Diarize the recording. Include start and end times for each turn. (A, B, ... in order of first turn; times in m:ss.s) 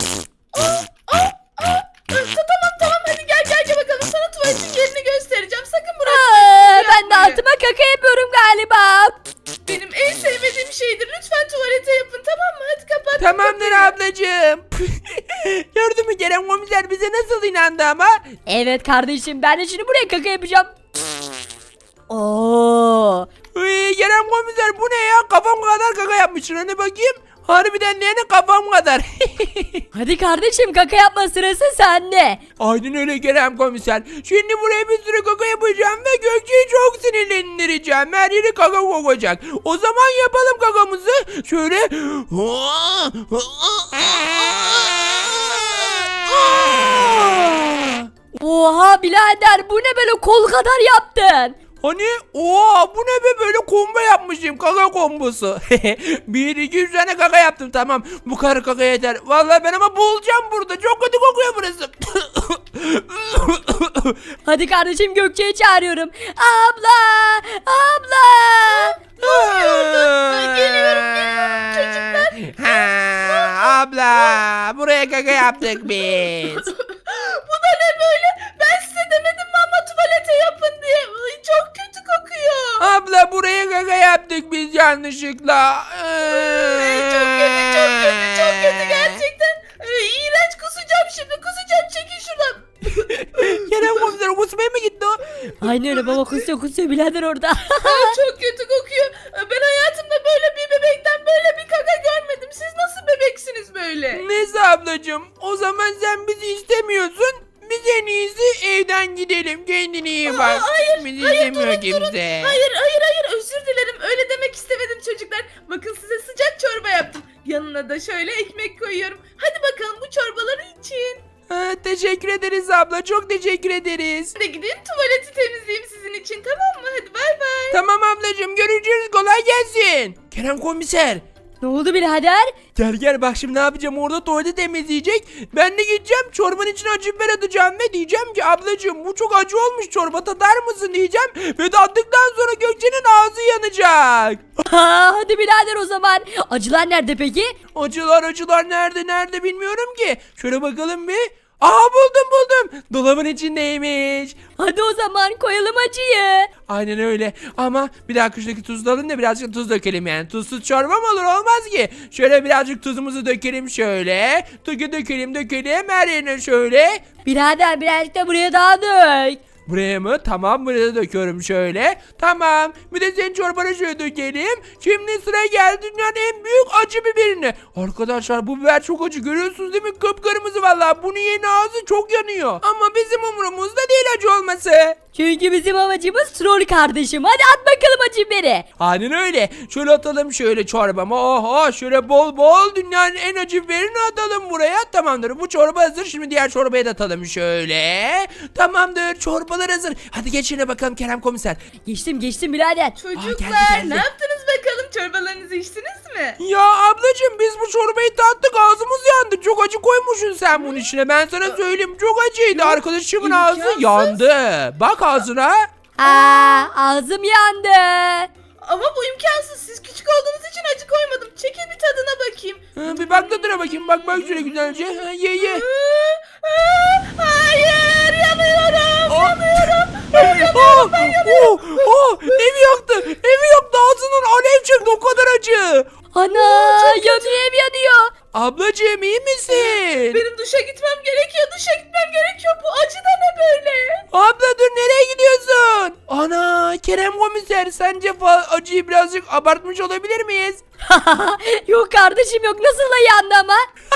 0:00.5-0:07.4 A
0:06.0-0:09.2 B
0:09.6-0:13.9 A
0:13.2-0:18.2 C
0:18.5-0:20.7 B
0:22.1-0:23.3 B
0:23.5-0:29.8 C
0:29.9-0:32.4 B
0:32.6-0:48.1 C
0:48.3-0:51.6 B
0:51.8-1:04.2 C
1:04.4-1:09.0 B
1:08.7-1:14.4 A
1:09.2-1:16.7 C
1:15.5-1:22.9 A
1:22.8-1:29.2 C
1:26.3-1:34.1 A
1:33.2-1:35.2 C
1:35.6-1:38.1 B
1:35.6-1:36.4 A
1:37.8-1:44.2 A
1:44.1-1:52.6 C
1:50.2-2:01.2 A
2:01.5-2:04.3 C
2:04.4-2:07.8 A
2:07.7-2:11.2 C
2:11.6-2:12.5 B
2:12.8-2:24.4 C
2:24.6-2:27.6 B
2:27.7-2:34.4 C
2:34.6-2:36.5 B
2:36.7-2:47.0 C
2:47.2-2:49.4 B
2:49.6-3:05.0 C
3:05.1-3:08.6 B
3:08.8-3:21.6 C
3:21.8-3:23.0 B
3:23.0-3:26.4 A
3:23.1-3:24.1 C
3:26.4-3:35.7 C
3:30.5-3:30.9 A
3:32.5-3:34.2 A
3:36.0-3:38.3 B
3:36.0-3:36.7 A
3:38.6-3:44.3 A
3:42.8-3:45.6 C
3:45.4-3:52.5 A
3:49.1-3:55.9 C
3:56.1-3:58.1 B
3:56.3-3:57.4 A
3:58.3-4:00.2 C
3:59.5-4:04.0 A
4:04.1-4:10.6 C
4:10.8-4:13.7 B